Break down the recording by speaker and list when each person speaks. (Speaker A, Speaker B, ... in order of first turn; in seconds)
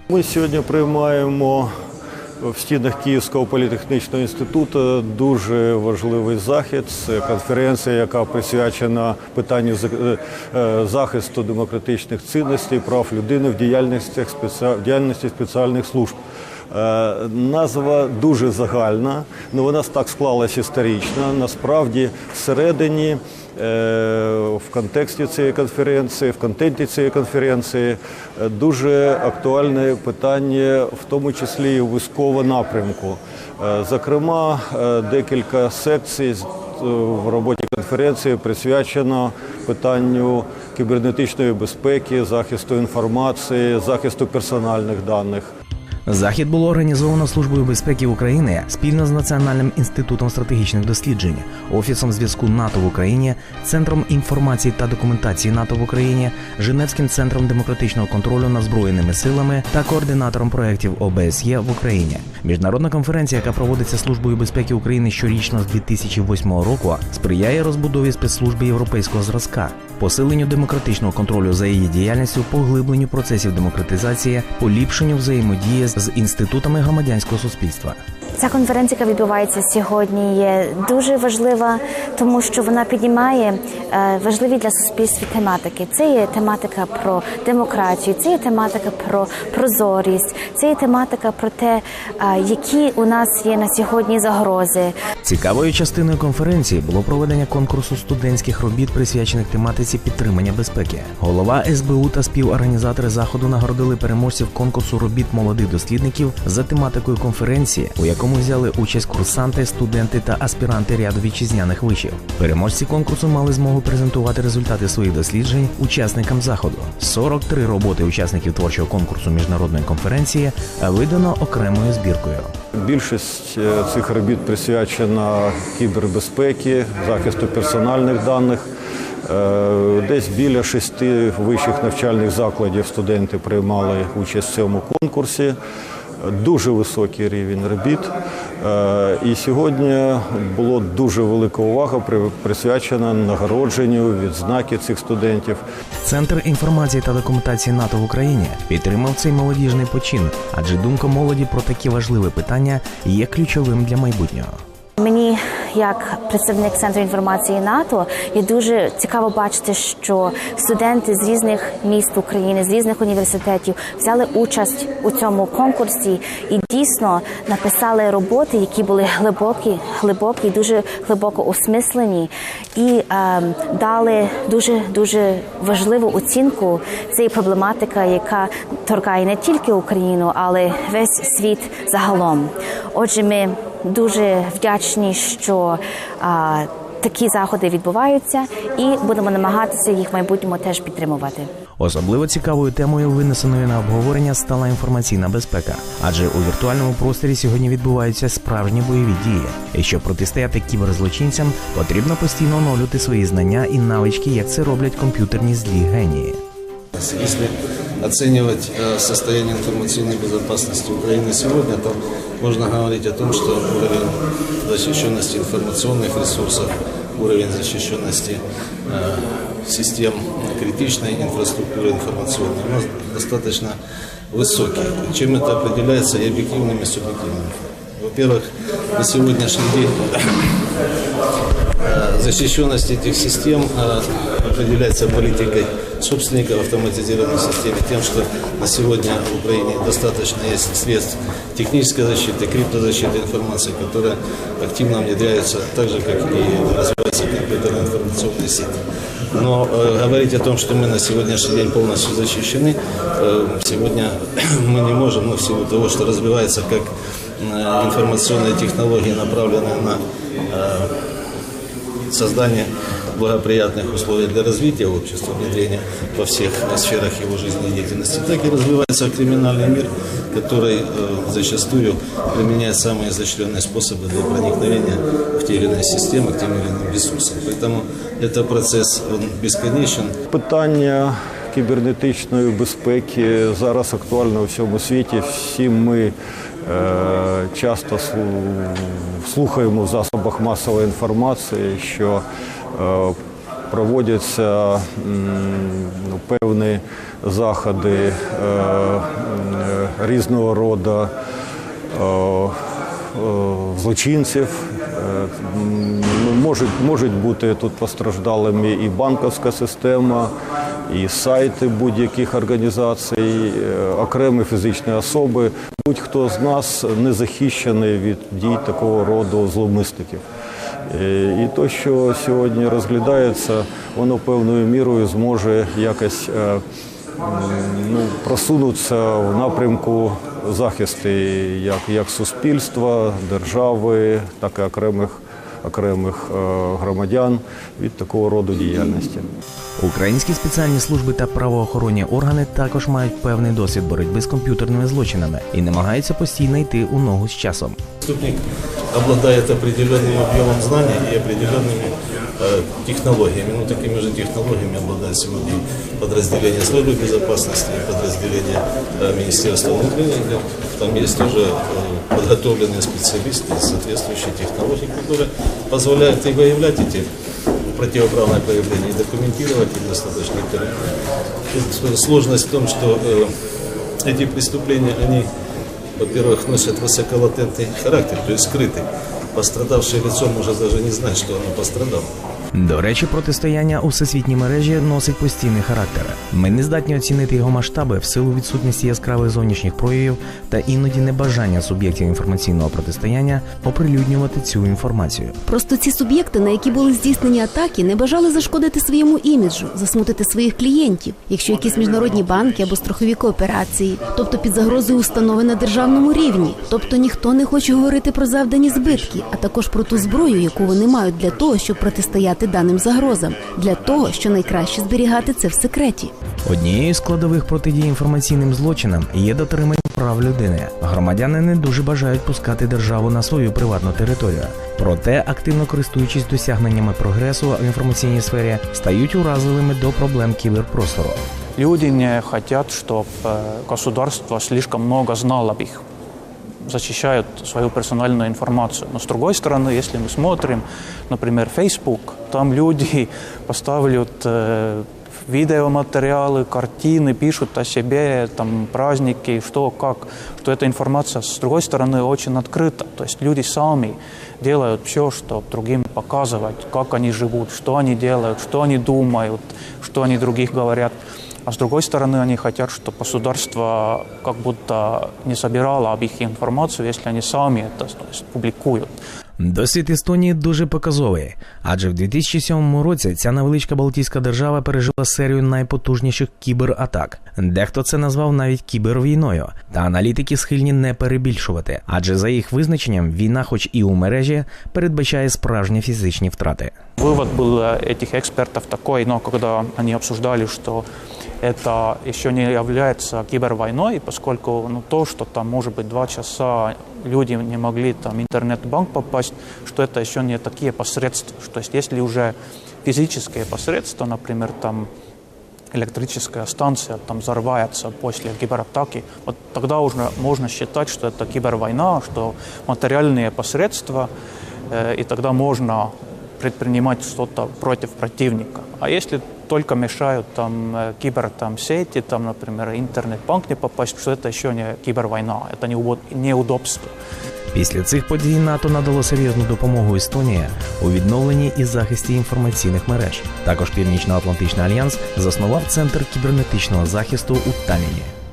Speaker A: 0.1-1.7, 2.4-16.2, 16.7-45.5, 122.8-128.7, 129.2-135.6, 136.2-145.6, 280.3-292.2, 292.7-293.2, 293.7-301.1, 301.9-302.6, 303.1-310.3, 310.9-320.2, 320.9-326.6, 327.2-339.3
Speaker B: 46.1-78.0, 95.3-96.0, 97.2-103.8, 105.0-105.4, 106.1-108.5, 112.2-113.9, 114.7-121.0, 121.7-122.3, 146.0-154.5, 191.8-206.3, 339.8-340.2, 342.5-343.5, 344.1-344.4, 383.6-389.3, 389.9-391.6
Speaker C: 46.4-52.9, 53.8-54.6, 55.5-62.5, 63.2-64.2, 95.3-122.5, 146.1-147.8, 148.5-150.8, 152.8-153.8, 192.1-193.6, 195.4-197.7, 198.5-203.3, 203.8-206.1, 339.8-347.8, 382.6-395.3, 416.5-431.2, 469.4-486.7, 527.5-538.1
Speaker D: 78.4-95.0, 155.0-191.5
Speaker E: 206.9-223.8, 224.3-230.7, 231.8-248.8, 249.3-260.9, 262.1-280.2, 348.0-367.1, 367.8-370.8, 371.5-373.3, 374.0-375.3, 376.0-382.1
Speaker F: 395.5-416.1
Speaker G: 431.6-435.8, 436.6-468.9, 487.0-490.9, 491.4-504.9, 505.7-514.1, 514.7-526.9